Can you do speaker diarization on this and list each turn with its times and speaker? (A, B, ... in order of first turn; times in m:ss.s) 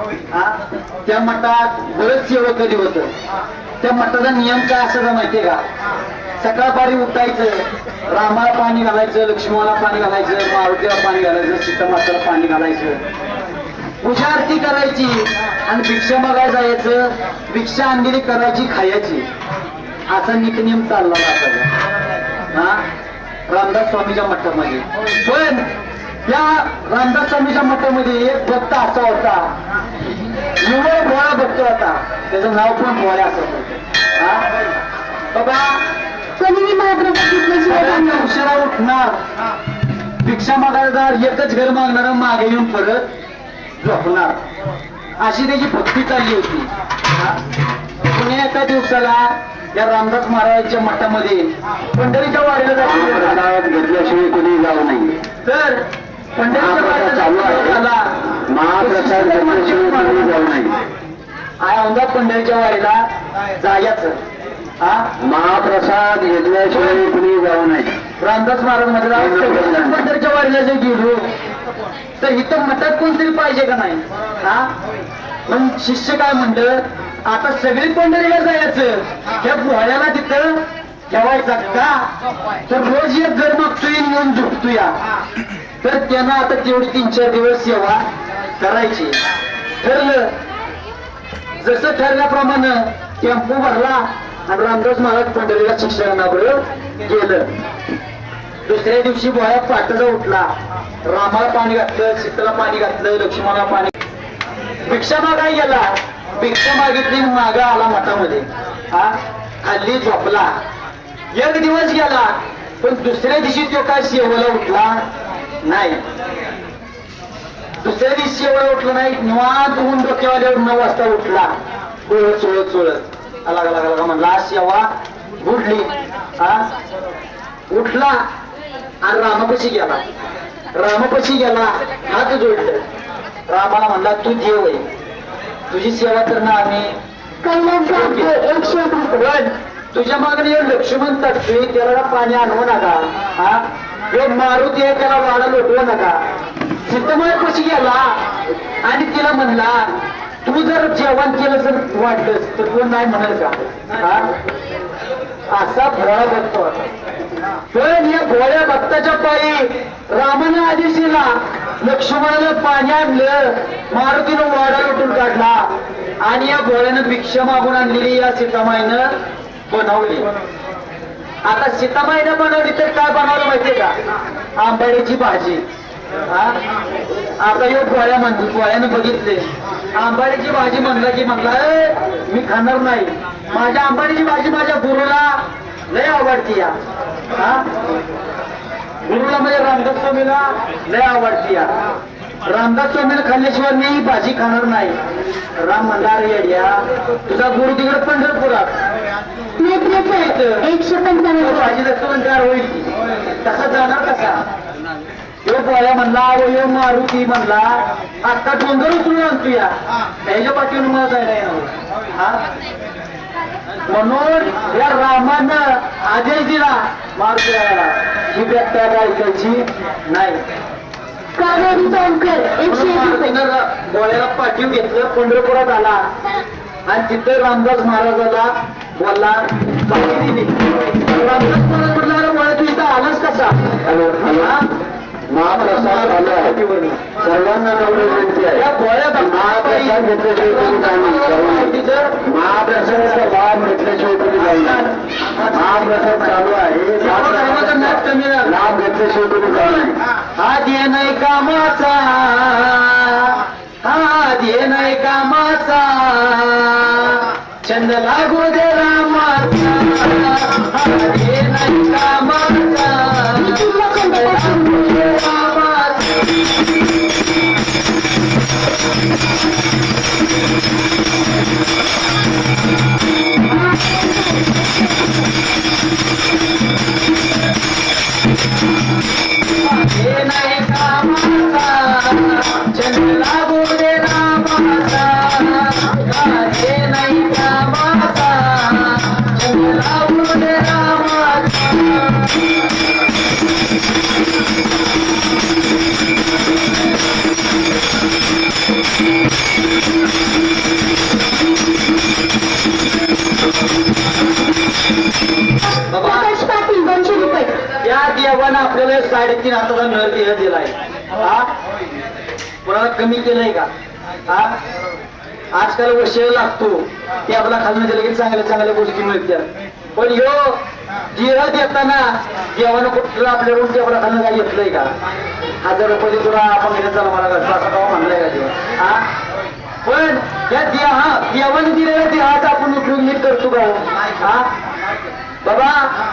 0:00.3-0:03.1 A
0:03.8-0:05.6 A
0:06.4-0:13.0 A
0:14.0-0:19.2 A
0:20.1-0:21.7 A
0:22.5-0:22.8 A
0:23.5-0:25.6 A
0:26.3-0:29.5 A
0:30.6-0:34.4 A
0:35.3-0:35.8 A
0:36.4-0:38.3 B
0:37.7-0:39.1 A
0:40.2-0:43.0 A
0:43.8-0:44.4 A
0:45.2-0:47.4 A
0:48.1-0:53.4 A
0:52.8-0:55.2 C
0:55.4-0:55.8 A
0:56.4-0:58.1 A
0:56.5-0:57.8 C
0:58.5-1:00.8 C
0:58.8-1:00.4 A
1:01.6-1:03.0 A
1:03.6-1:04.2 A
1:04.8-1:05.1 A
1:05.2-1:08.0 C
1:06.7-1:07.1 A
1:08.2-1:11.2 A
1:09.1-1:10.0 C
1:12.2-1:14.7 A
1:15.5-1:22.0 A
1:22.7-1:24.9 A
1:25.8-1:28.0 A
1:28.6-1:29.2 A
1:29.8-1:30.3 A
1:31.6-1:37.5 A
1:38.7-1:40.5 A
1:41.1-1:43.9 A
1:44.8-1:50.5 A
1:51.3-1:55.0 A
1:55.6-1:56.0 A
1:57.8-2:01.5 A
2:02.1-2:04.9 A
2:05.4-2:06.6 A
2:07.7-2:08.2 A
2:09.0-2:10.0 A
2:10.7-2:12.8 A
2:13.5-2:14.8 A
2:15.7-2:17.0 A
2:17.4-2:19.4 B
2:17.8-2:26.2 A
2:26.9-2:28.2 A
2:28.8-2:29.9 A
2:30.4-2:34.3 A
2:35.5-2:36.8 A
2:37.7-2:45.7 A
2:46.2-2:49.1 A
2:49.7-2:50.3 A
2:51.4-2:53.9 A
2:54.6-2:55.6 A
2:56.3-2:56.6 A
2:57.4-3:05.4 A
3:05.9-3:06.7 A
3:07.3-3:07.6 A
3:09.0-3:11.7 A
3:12.4-3:15.0 A
3:15.6-3:18.7 A
3:19.6-3:21.7 B
3:19.9-3:20.6 A
3:21.4-3:22.9 A
3:23.4-3:24.4 A
3:25.4-3:29.7 A
3:30.2-3:32.4 A
3:33.9-3:40.4 A
3:41.4-3:43.4 B
3:41.4-3:46.0 A
3:46.9-3:54.7 A
3:53.8-3:54.6 C
3:55.3-3:56.6 C
3:55.4-3:57.1 A
3:57.2-4:10.0 C
3:58.5-4:02.2 A
4:02.8-4:03.3 A
4:04.4-4:08.7 A
4:09.5-4:26.2 A
4:23.4-4:25.1 B
4:33.5-4:34.7 B
4:39.6-4:52.5 A
5:05.9-5:06.3 A
5:06.0-5:07.5 B
5:07.8-5:11.5 A
5:12.6-5:13.7 A
5:14.3-5:14.5 A
5:15.5-5:20.6 A
5:21.1-5:24.9 A
5:25.6-5:29.1 A
5:29.8-5:34.5 A
5:35.4-5:35.9 A